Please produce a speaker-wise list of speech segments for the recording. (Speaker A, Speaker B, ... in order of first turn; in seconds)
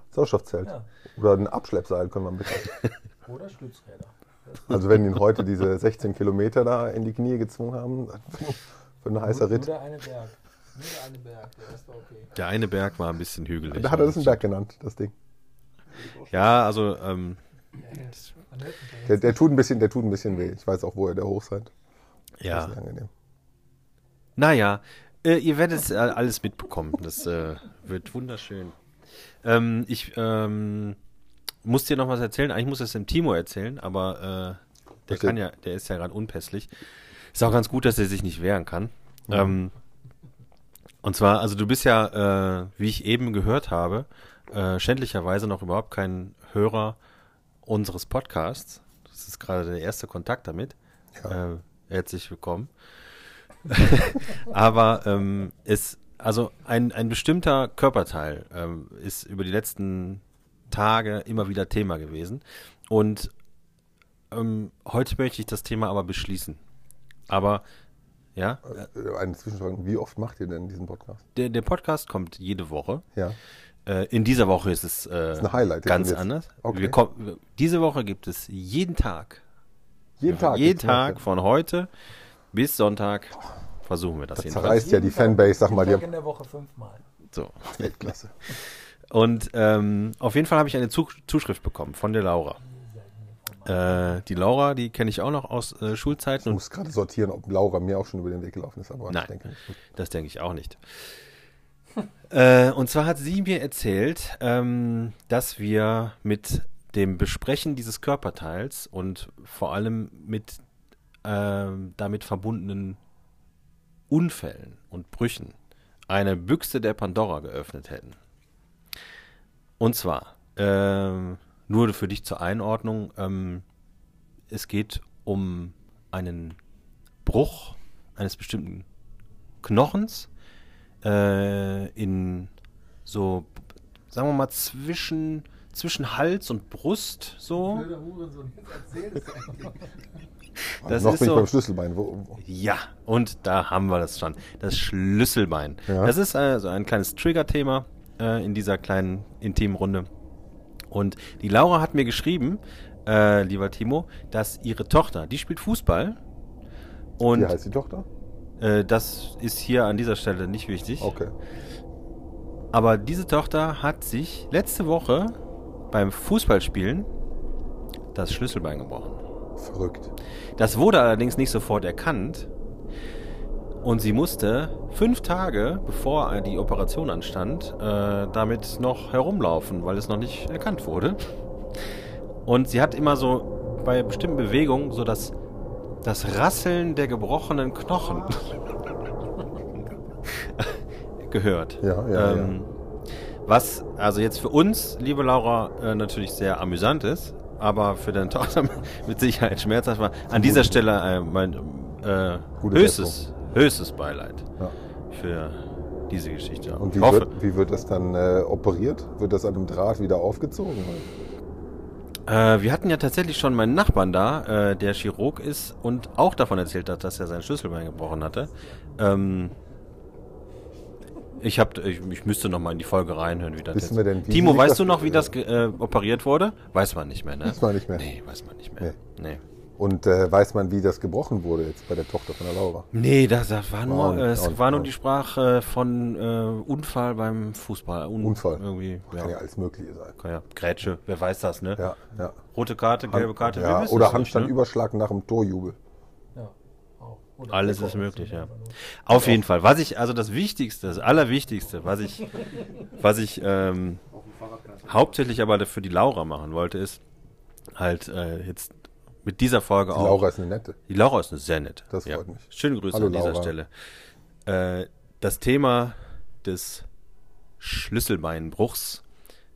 Speaker A: 0.1-2.8, 4.7-9.7, 13.7-15.1, 19.1-21.7, 22.5-23.1, 35.1-35.4, 39.3-39.6, 68.7-71.2, 75.4-77.0, 80.2-81.2, 84.3-86.0, 87.7-88.3, 96.4-99.8, 140.8-142.4, 145.9-146.1, 157.2-158.1, 161.0-161.3, 169.6-170.1, 191.8-192.6, 200.3-200.8, 202.6-203.2, 206.8-211.1, 223.7-225.3, 227.4-228.1, 229.8-232.9, 233.8-234.9, 238.2-240.2, 241.8-242.4, 243.1-245.8, 249.1-249.4, 259.9-260.8, 261.9-263.5
Speaker B: 3.2-4.7, 9.2-12.3, 17.8-19.4, 84.6-87.0, 92.7-93.8, 137.5-139.9, 246.3-248.8
Speaker C: 12.3-14.4, 16.2-17.4, 22.4-22.8, 24.4-28.8, 29.4-31.0, 31.6-36.8, 37.3-39.7, 41.0-47.0, 47.6-52.7, 53.6-63.3, 64.3-66.6, 67.3-67.6, 68.3-68.7, 71.3-73.0, 73.8-79.4, 80.3-81.9, 82.5-84.9, 87.3-87.8, 89.1-92.6, 93.6-96.6, 99.9-101.1, 102.3-110.6, 111.2-113.0, 114.1-115.6, 116.1-118.2, 119.8-123.6, 124.5-126.6, 127.2-128.8, 129.6-130.3, 131.0-132.5, 133.1-133.6, 134.1-137.9, 140.8-141.5, 142.4-150.1, 150.9-156.2, 157.2-157.6, 158.6-161.1, 162.7-165.3, 165.9-167.1, 168.1-169.2, 170.6-172.5, 173.8-181.2, 182.4-185.3, 186.0-188.6, 190.3-192.7, 193.4-204.5, 205.1-207.3, 212.3-219.5, 221.4-229.4, 232.9-239.4, 240.2-241.8, 242.5-244.5, 247.5-254.0, 254.8-257.0, 257.7-260.2, 260.9-263.7, 264.4-266.9, 267.6-269.0